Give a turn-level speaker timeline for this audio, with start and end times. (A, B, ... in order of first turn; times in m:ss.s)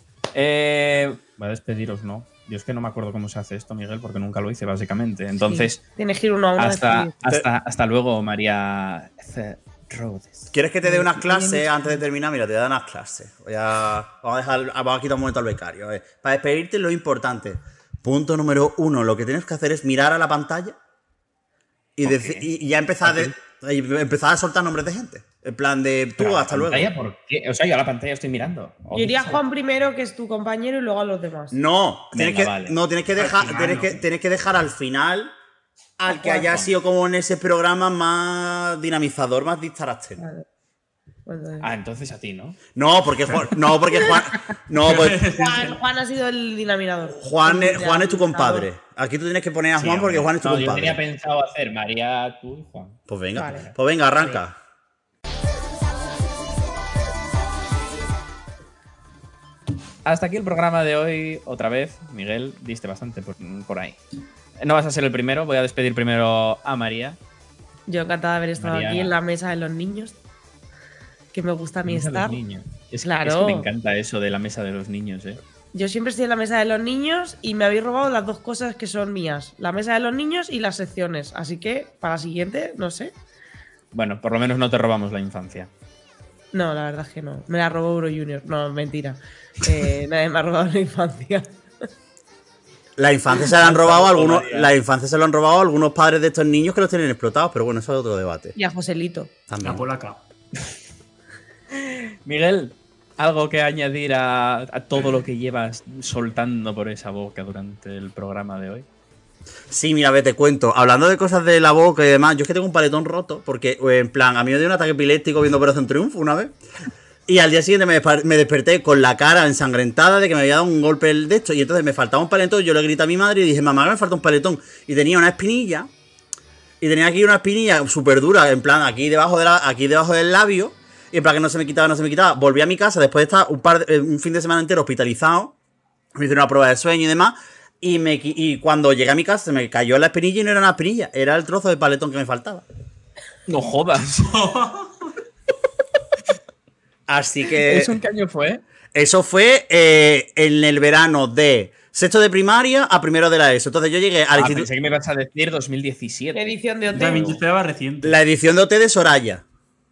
0:00.3-0:05.9 A
0:05.5-0:07.2 B
0:06.6-0:10.5 A
0:10.5-0:20.8 C
0:11.3-0:11.7 B
0:22.0-0:26.9 C
0:22.0-0:22.5 A
0:23.0-0:23.4 A
0:26.2-0:29.4 A
0:28.9-0:31.6 B
0:31.5-0:35.3 C
0:32.1-0:32.8 A
0:33.2-0:34.0 D
0:36.0-0:40.2 C
0:36.1-0:36.6 B
0:40.2-0:40.4 B
0:41.3-0:41.7 B
0:41.6-0:42.6 A
0:42.8-0:45.2 C
0:44.8-0:45.8 D
0:45.2-0:48.7 B
0:47.1-0:51.0 C
0:49.8-0:53.7 A
0:53.1-0:54.6 C
0:53.4-0:53.7 B
1:00.0-1:04.0 A
1:04.6-1:07.2 A
1:07.9-1:10.2 B
1:08.6-1:09.1 A
1:11.3-1:12.4 B
1:11.9-1:15.4 A
1:13.0-1:13.7 B
1:15.7-1:23.1 B
1:23.9-1:25.7 A
1:26.5-1:31.6 B
1:33.0-1:38.6 C
1:33.6-1:34.7 A
1:38.6-1:39.3 B
1:39.5-1:39.8 C
1:39.6-1:40.2 D
1:41.7-1:48.9 A
1:49.7-1:56.6 C
1:57.3-2:05.9 C
2:06.8-2:15.6 C
2:16.2-2:22.6 C
2:23.5-2:24.3 A
2:24.2-2:25.1 D
2:27.1-2:28.0 C
2:27.5-2:28.6 A
2:28.9-2:34.7 C
2:34.4-2:37.4 A
2:36.3-2:37.4 B
2:36.9-2:38.2 D
2:38.0-2:39.4 C